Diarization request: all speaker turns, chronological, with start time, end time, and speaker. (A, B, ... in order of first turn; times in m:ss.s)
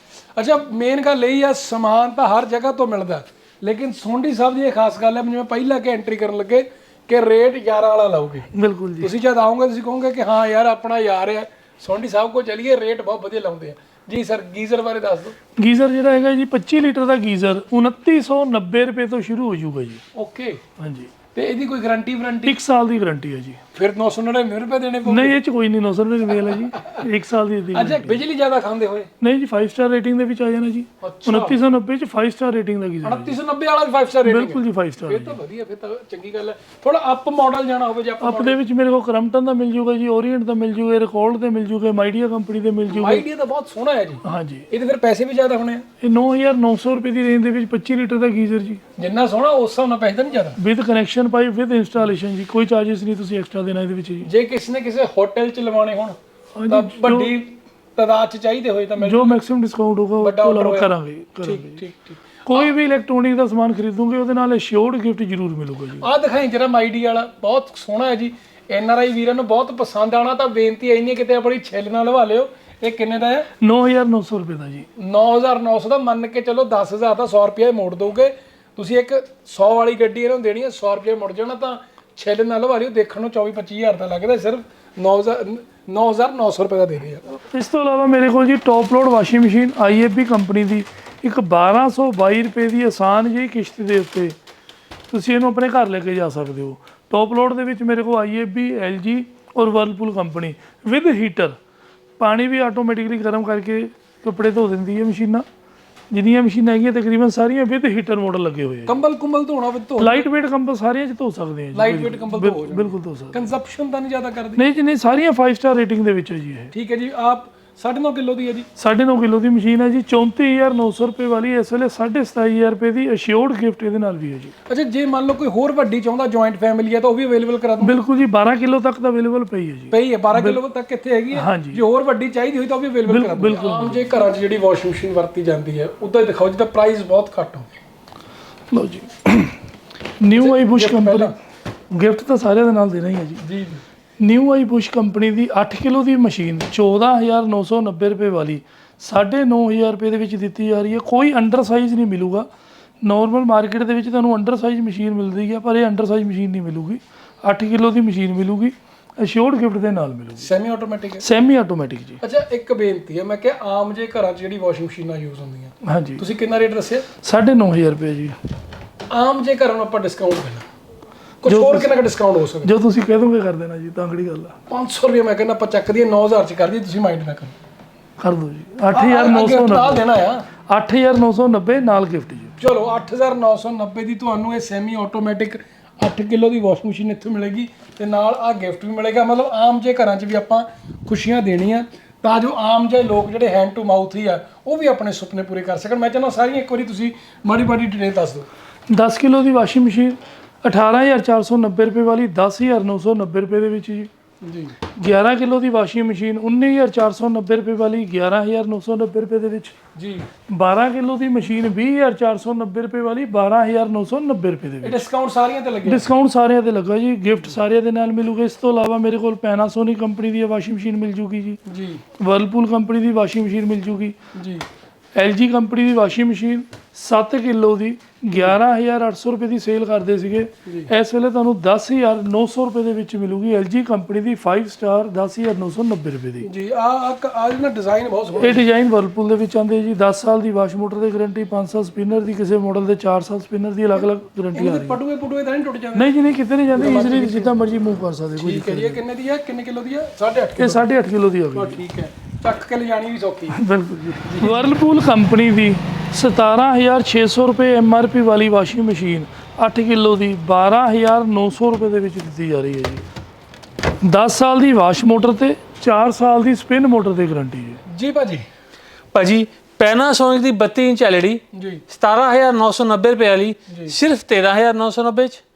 0:00.4-0:08.5 A
0:08.5-0:09.1 B
0:09.0-0:15.4 A
0:15.6-0:20.0 B
0:20.1-0:20.6 A
0:20.8-0:21.1 B
0:21.4-0:22.6 A
0:22.4-0:23.6 B
0:23.7-0:25.4 A
0:25.1-0:28.2 B
0:26.8-0:27.0 A
0:27.7-0:29.1 A
0:29.2-0:33.4 B
0:31.0-0:31.6 A
0:33.0-0:38.6 A
0:34.3-0:35.4 B
0:38.2-0:43.2 B
0:42.9-0:45.9 A
0:44.2-0:44.7 B
0:46.0-0:48.8 B
0:49.0-0:50.6 A
0:50.6-0:54.3 B
0:54.2-0:56.2 A
0:56.6-0:57.3 B
0:56.7-0:59.4 A
0:59.0-1:01.8 B
1:00.2-1:00.9 A
1:01.4-1:02.7 A
1:02.5-1:06.1 B
1:06.0-1:13.5 A
1:13.6-1:14.9 B
1:15.0-1:27.3 A
1:27.3-1:34.4 B
1:35.1-1:41.6 B
1:42.2-1:45.5 B
1:46.1-1:49.0 B
1:48.9-1:50.2 A
1:50.0-1:53.5 B
1:51.7-1:54.6 A
1:54.6-1:56.7 B
1:56.7-1:58.7 A
1:58.8-2:04.6 B
2:04.7-2:08.0 A
2:07.8-2:10.6 B
2:09.9-2:17.7 A
2:11.4-2:11.8 B
2:13.1-2:14.0 B
2:18.7-2:19.6 B
2:20.2-2:21.3 B
2:20.3-2:21.3 A
2:21.9-2:23.4 B
2:23.4-2:23.8 A
2:24.2-2:32.5 B
2:33.0-2:40.5 B
2:40.4-2:41.3 A
2:41.2-2:42.2 B
2:42.2-2:47.1 A
2:45.8-2:46.2 B
2:47.2-2:48.4 B
2:49.1-2:50.7 A
2:51.4-2:52.7 A
2:51.4-2:51.9 B
2:52.6-2:54.6 B
2:54.7-2:57.6 A
2:58.2-3:00.0 B
2:58.9-3:00.4 A
3:00.7-3:02.6 B
3:02.6-3:18.5 A
3:18.9-3:24.1 B
3:24.4-3:24.8 A
3:24.9-3:29.8 B
3:30.0-3:30.3 A
3:30.5-3:35.0 B
3:34.8-3:36.0 A
3:35.8-3:41.6 B
3:41.7-3:42.0 A
3:42.2-3:44.2 B
3:44.4-3:44.6 A
3:45.2-3:56.5 B
3:48.3-3:48.6 A
3:50.7-3:50.9 A
3:56.4-3:58.6 A
3:58.4-4:05.0 B
4:04.5-4:06.1 A
4:06.0-4:09.0 B
4:06.7-4:07.5 A
4:08.4-4:10.9 A
4:10.6-4:11.8 B
4:11.5-4:13.6 A
4:13.6-4:23.0 B
4:14.2-4:14.6 A
4:24.0-4:27.8 B
4:27.9-4:28.4 A
4:29.1-4:35.4 C
4:31.5-4:31.8 A
4:33.7-4:34.0 A